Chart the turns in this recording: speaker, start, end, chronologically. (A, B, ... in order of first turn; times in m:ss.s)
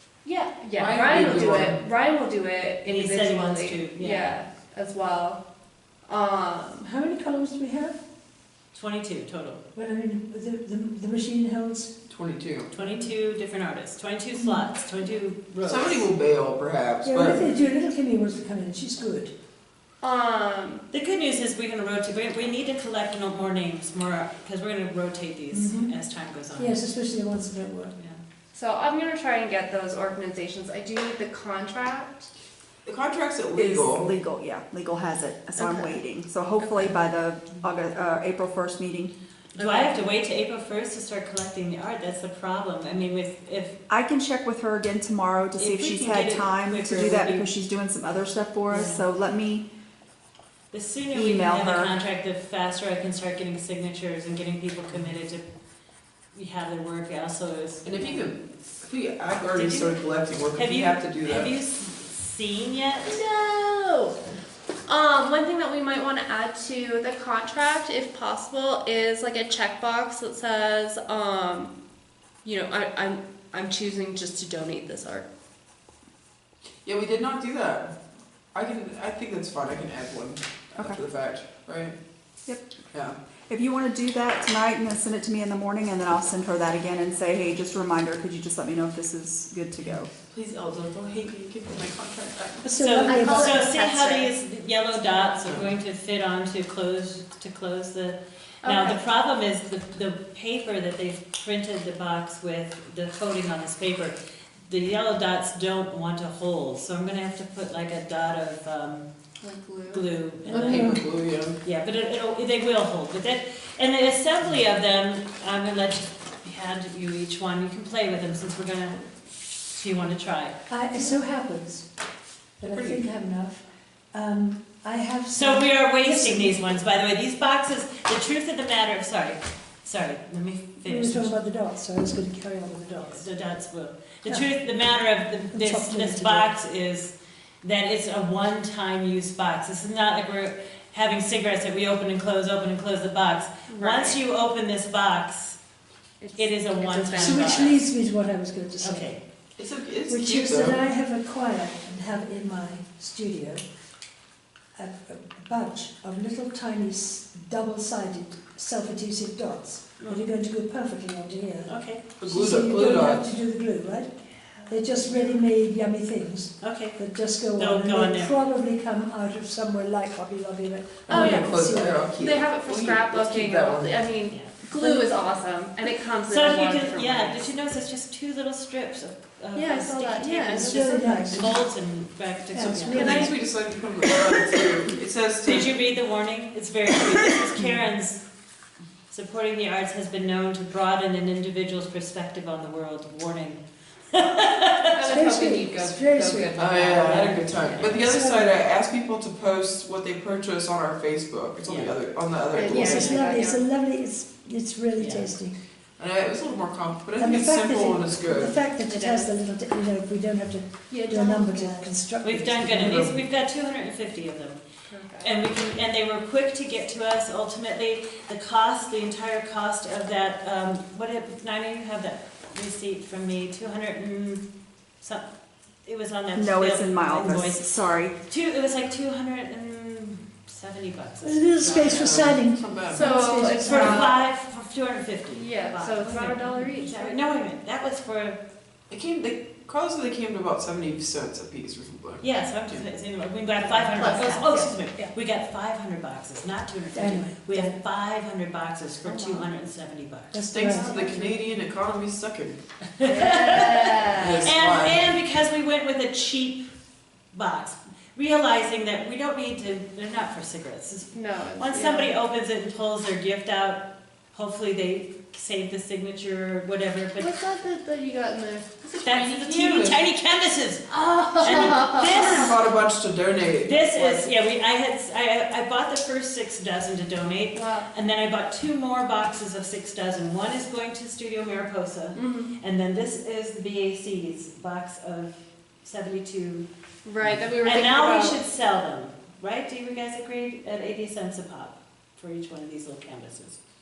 0:00.2-0:05.4 A
0:00.8-0:01.9 B
0:02.9-0:04.4 C
0:06.1-0:06.9 A
0:06.8-0:08.0 D
0:08.7-0:09.6 C
0:09.8-0:11.9 D
0:12.1-0:12.7 B
0:12.7-0:16.1 C
0:15.6-0:17.4 B
0:17.0-0:19.3 D
0:20.0-0:20.8 A
0:20.9-0:26.8 C
0:25.5-0:25.9 D
0:26.6-0:28.0 D
0:28.0-0:28.2 C
0:28.5-0:32.3 A
0:32.8-0:34.1 B
0:33.6-0:39.1 E
0:35.6-0:36.0 A
0:39.6-0:40.0 A
0:39.6-0:43.8 C
0:43.9-0:49.7 E
0:45.6-0:47.6 C
0:48.7-0:49.0 C
0:50.7-0:55.5 C
0:51.1-0:51.9 E
0:56.3-0:58.3 C
0:57.8-1:01.6 B
0:59.5-1:00.0 C
1:00.6-1:03.1 C
1:03.0-1:04.2 A
1:04.9-1:11.7 A
1:12.4-1:15.3 A
1:16.8-1:17.9 B
1:18.5-1:22.0 B
1:22.5-1:22.8 E
1:23.5-1:30.1 E
1:29.9-1:33.2 B
1:32.6-1:33.6 D
1:32.8-1:44.2 C
1:33.0-1:34.3 A
1:35.4-1:35.7 B
1:38.6-1:39.0 A
1:44.7-1:49.1 C
1:49.4-1:50.6 A
1:49.9-1:51.0 C
1:50.5-1:51.6 B
1:51.6-1:59.0 C
1:59.7-2:01.2 C
2:00.7-2:01.9 D
2:02.6-2:06.7 D
2:02.6-2:03.1 B
2:05.3-2:11.3 C
2:10.8-2:13.3 D
2:13.0-2:25.6 C
2:14.2-2:14.5 D
2:15.5-2:16.5 D
2:23.7-2:24.2 A
2:26.2-2:27.8 A
2:26.4-2:27.8 C
2:27.2-2:29.2 D
2:28.8-2:29.2 C
2:29.6-2:30.8 B
2:30.1-2:33.6 D
2:34.8-2:52.2 D
2:40.0-2:40.3 C
2:41.7-2:42.0 C
2:42.0-2:43.4 B
2:44.2-2:45.2 C
2:46.6-2:48.4 C
2:51.1-2:54.2 B
2:51.1-2:51.5 A
2:52.2-2:57.4 A
2:54.3-2:54.6 C
2:54.8-2:55.1 D
2:56.3-3:03.4 C
2:59.6-3:01.3 A
3:00.7-3:01.4 D
3:01.3-3:01.6 B
3:02.5-3:03.3 D
3:02.8-3:05.7 B
3:05.4-3:08.2 C
3:09.1-3:13.6 C
3:14.1-3:15.2 C
3:14.9-3:18.0 A
3:15.1-3:16.5 D
3:16.6-3:23.2 B
3:17.0-3:18.0 C
3:18.1-3:18.5 D
3:21.6-3:22.0 C
3:22.5-3:23.6 A
3:22.7-3:23.2 C
3:23.0-3:25.6 D
3:25.0-3:25.4 C
3:26.0-3:28.7 B
3:27.2-3:33.2 D
3:28.9-3:29.3 A
3:30.9-3:31.9 A
3:32.2-3:34.6 C
3:32.7-3:33.2 B
3:34.9-3:35.3 A
3:35.2-3:44.4 C
3:45.0-3:45.3 C
3:45.8-3:47.7 C
3:46.4-3:48.2 E
3:48.2-3:52.3 C
3:51.2-3:54.0 D
3:51.6-3:53.3 B
3:52.9-3:54.2 A
3:53.6-3:58.4 C
3:55.4-3:57.2 A
3:58.9-4:02.9 B
4:02.2-4:10.4 C
4:03.6-4:05.1 A
4:06.9-4:07.8 D
4:09.0-4:09.5 A
4:10.3-4:11.0 D
4:10.5-4:12.6 B
4:13.0-4:16.6 C
4:13.0-4:14.5 A
4:14.2-4:15.2 B
4:17.3-4:27.3 C
4:21.1-4:22.1 A
4:27.2-4:29.3 A
4:28.8-4:30.0 B
4:29.0-4:32.5 C
4:30.9-4:32.3 A
4:32.1-4:34.3 B
4:33.6-4:46.7 C
4:37.5-4:37.9 A
4:42.1-4:42.5 A
4:47.0-4:48.4 A
4:47.6-4:53.6 C